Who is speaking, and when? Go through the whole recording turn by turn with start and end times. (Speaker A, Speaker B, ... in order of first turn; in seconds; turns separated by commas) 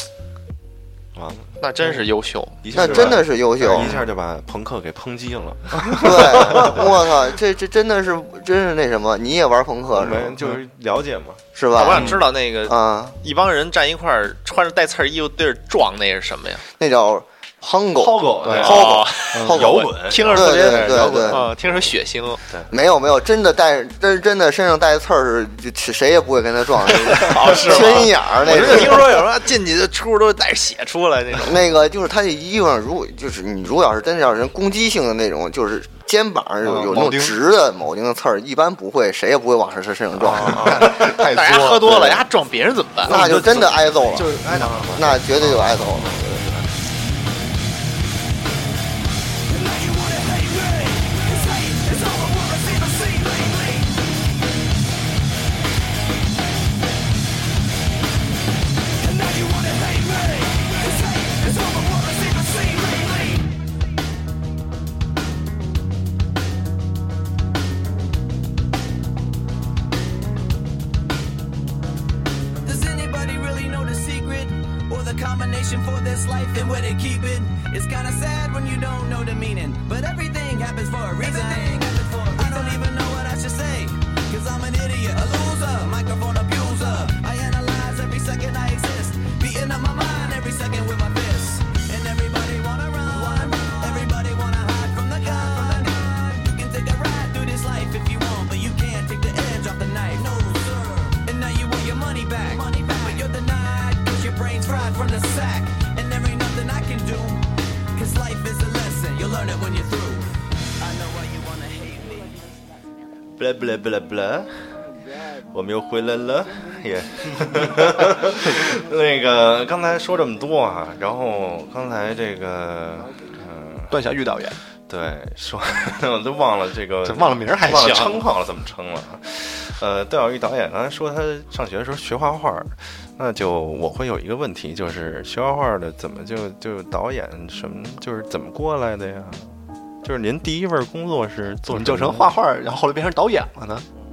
Speaker A: 1.1-1.6, Speaker B: 1.6-3.2, Speaker A: 2.6-7.1, Speaker C: 2.7-4.0, Speaker C: 6.0-10.4, Speaker A: 9.9-11.4, Speaker C: 11.6-13.2, Speaker B: 11.7-16.6, Speaker D: 11.9-12.2, Speaker C: 16.8-21.5, Speaker A: 18.0-21.8, Speaker D: 18.4-18.8, Speaker B: 18.5-22.4, Speaker D: 19.3-19.6, Speaker D: 20.5-21.4, Speaker C: 22.7-29.2, Speaker B: 27.2-31.6, Speaker C: 31.4-40.9, Speaker D: 36.6-37.4, Speaker D: 40.2-42.2, Speaker B: 40.4-43.3, Speaker C: 43.0-44.4, Speaker A: 43.0-46.6, Speaker D: 44.2-44.9, Speaker B: 44.5-44.9, Speaker C: 44.9-46.5, Speaker E: 49.5-53.8, Speaker E: 59.1-63.4, Speaker E: 72.6-112.3, Speaker A: 113.4-114.7, Speaker A: 115.5-124.0, Speaker D: 123.9-124.6, Speaker A: 124.9-139.5, Speaker D: 127.0-128.2, Speaker A: 140.0-142.3, Speaker D: 141.7-143.9